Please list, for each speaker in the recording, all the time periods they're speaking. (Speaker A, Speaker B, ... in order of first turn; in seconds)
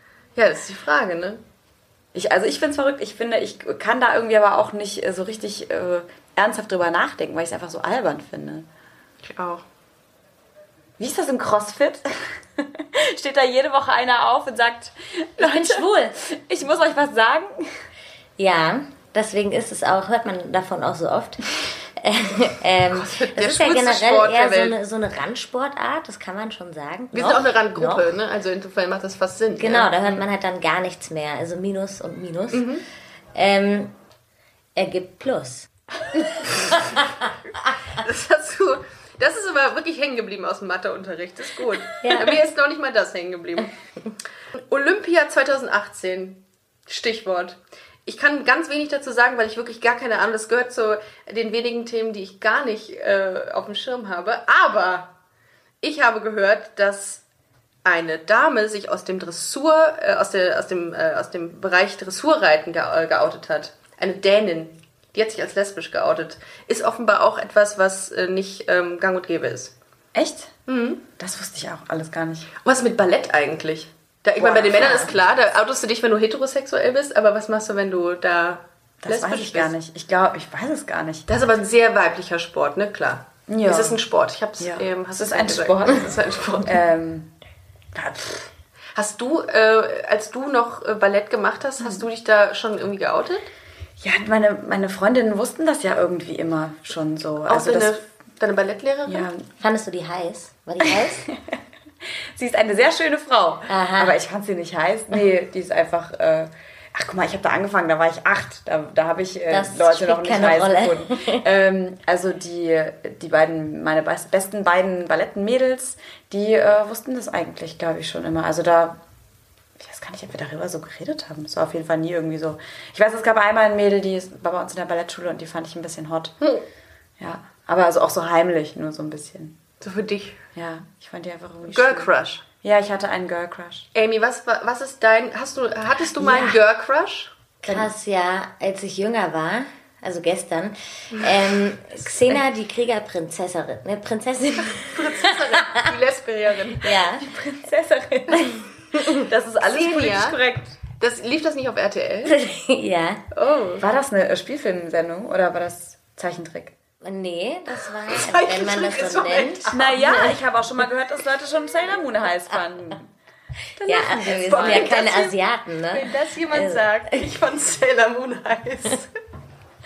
Speaker A: 0.3-1.4, 9.2-9.6, 22.9-24.8, 27.1-29.9, 32.5-32.8, 37.9-43.7, 44.5-55.1, 55.8-57.2, 57.8-69.7, 70.7-71.0, 72.6-79.7, 81.3-86.8, 88.9-93.5, 97.5-99.3, 129.8-130.4, 131.7-132.4, 133.9-137.3, 144.7-147.1, 149.6-150.4, 151.0-152.4, 153.3-153.8, 158.0-160.3, 164.0-165.3, 165.9-169.1
Speaker B: 2.1-8.7, 11.0-17.8, 70.1-70.5, 71.2-72.5, 79.0-81.2, 83.5-84.0, 84.6-87.3, 87.9-88.5, 94.0-98.0, 99.1-99.5, 102.3-119.0, 119.8-126.3, 127.2-129.6, 130.6-133.9, 147.2-150.8, 153.8-156.7, 159.7-163.1, 163.8-165.3
Speaker C: 15.4-15.8, 18.4-28.1, 29.6-32.8, 33.3-33.9, 34.7-37.3, 42.0-42.5, 74.4-75.2, 99.6-101.2, 103.7-104.2, 109.5-111.5, 136.2-136.6, 137.6-145.9, 146.8-147.3, 152.2-153.2, 157.0-160.3, 163.8-167.2